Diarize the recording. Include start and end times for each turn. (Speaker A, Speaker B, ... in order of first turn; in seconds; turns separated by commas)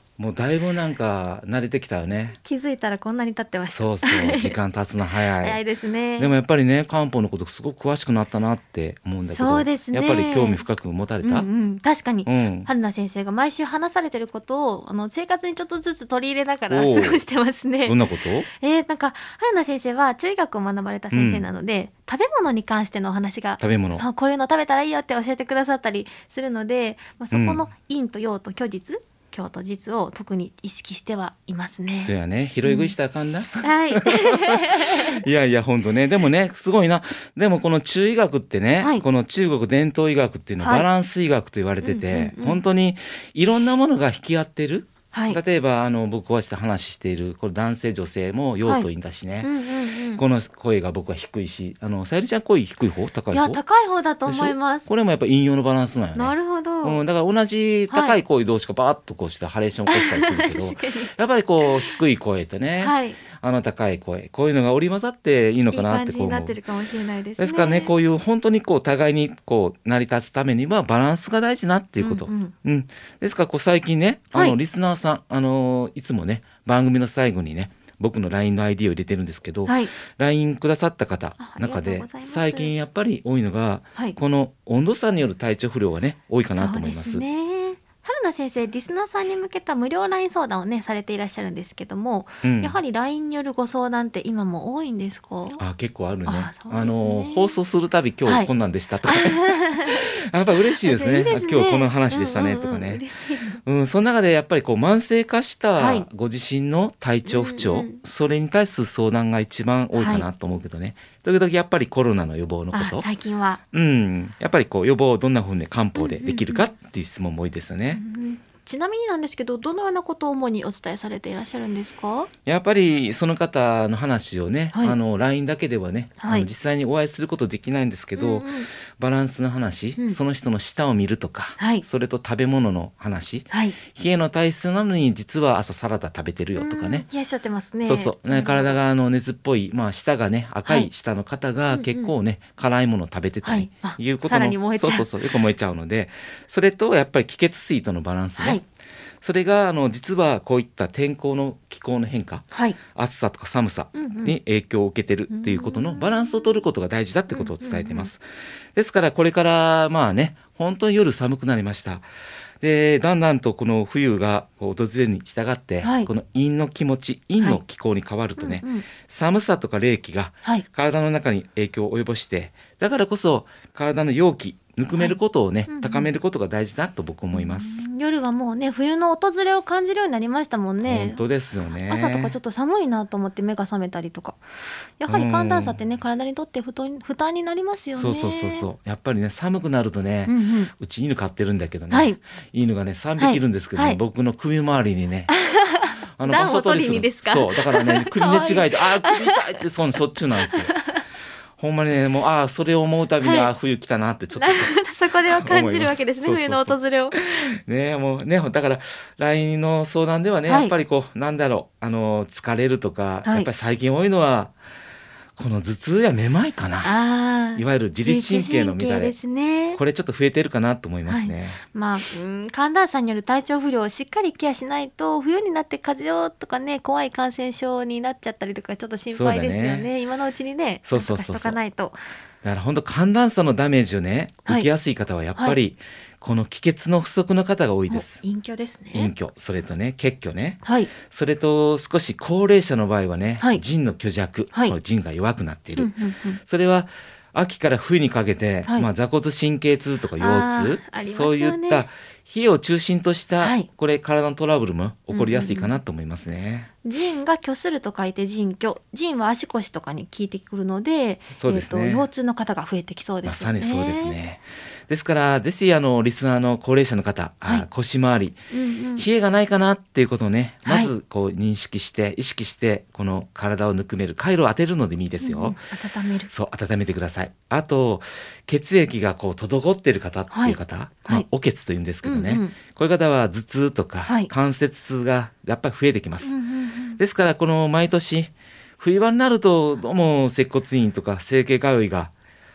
Speaker A: 0.2-2.4, Speaker B: 2.4-4.6, Speaker A: 3.6-5.6, Speaker B: 5.4-6.3, Speaker A: 6.2-11.5, Speaker B: 9.3-10.6, Speaker B: 11.2-32.9, Speaker A: 12.2-12.7, Speaker A: 16.7-17.2, Speaker A: 17.9-18.5, Speaker A: 21.1-21.5, Speaker A: 23.6-24.1, Speaker A: 27.3-27.7, Speaker A: 32.0-49.5, Speaker B: 33.6-35.2, Speaker B: 38.8-39.0, Speaker B: 40.6-40.9, Speaker B: 41.8-42.6, Speaker B: 45.1-45.4, Speaker B: 49.4-50.2, Speaker A: 50.1-53.6, Speaker B: 53.3-54.9, Speaker A: 54.3-66.6, Speaker B: 56.1-57.0, Speaker B: 57.9-58.2, Speaker B: 59.9-61.1, Speaker B: 61.6-62.0, Speaker B: 62.8-63.2, Speaker B: 65.7-68.0, Speaker A: 67.4-87.2, Speaker B: 72.0-72.5, Speaker B: 79.7-79.9, Speaker B: 81.4-82.7, Speaker B: 86.5-95.6, Speaker A: 92.4-92.8, Speaker A: 95.6-103.0, Speaker B: 96.3-97.6, Speaker B: 99.1-100.1, Speaker B: 100.8-103.6, Speaker A: 103.7-113.1, Speaker B: 105.8-106.1, Speaker B: 107.3-108.0, Speaker B: 109.9-110.3, Speaker B: 112.7-113.6, Speaker A: 113.7-118.0, Speaker B: 116.0-116.7, Speaker B: 117.9-122.3, Speaker A: 122.5-137.1, Speaker B: 126.2-126.5, Speaker B: 128.2-128.7, Speaker B: 131.6-131.8, Speaker B: 133.5-133.8, Speaker B: 136.6-138.8, Speaker A: 137.8-148.6, Speaker B: 141.7-142.1, Speaker B: 143.4-145.1, Speaker A: 149.2-158.2, Speaker B: 152.5-152.8, Speaker B: 153.9-154.4, Speaker B: 155.3-156.6, Speaker B: 157.3-158.1, Speaker A: 158.8-162.0, Speaker A: 162.6-177.9, Speaker B: 165.8-166.1, Speaker B: 168.4-168.9, Speaker B: 175.7-176.1, Speaker B: 177.3-181.2, Speaker A: 180.8-182.4, Speaker B: 181.9-184.4, Speaker B: 185.0-188.7, Speaker A: 185.1-185.8, Speaker A: 187.9-195.3, Speaker B: 190.3-190.7, Speaker B: 191.9-192.2, Speaker B: 193.2-194.0, Speaker B: 195.3-199.4, Speaker A: 196.2-200.7, Speaker B: 200.4-201.0, Speaker A: 201.6-214.5, Speaker B: 203.2-203.5, Speaker B: 204.3-207.2, Speaker B: 210.5-210.7, Speaker A: 215.4-216.9, Speaker B: 216.8-219.8, Speaker A: 217.6-219.2, Speaker A: 219.8-221.6, Speaker B: 221.1-232.0, Speaker A: 229.1-229.9, Speaker A: 230.9-231.6, Speaker A: 232.4-238.2, Speaker B: 237.9-239.1, Speaker A: 238.9-245.9, Speaker B: 240.6-240.9, Speaker B: 245.8-246.4, Speaker A: 246.4-256.7, Speaker B: 250.2-251.9, Speaker B: 253.4-253.7, Speaker B: 255.1-255.8, Speaker B: 256.8-264.2, Speaker A: 261.4-262.1, Speaker A: 263.2-268.4, Speaker B: 268.5-269.1, Speaker A: 269.0-275.6, Speaker B: 270.6-270.9, Speaker B: 275.2-276.3, Speaker A: 276.3-286.4, Speaker B: 280.3-281.2, Speaker B: 282.0-282.6, Speaker B: 286.2-287.0, Speaker A: 287.0-292.1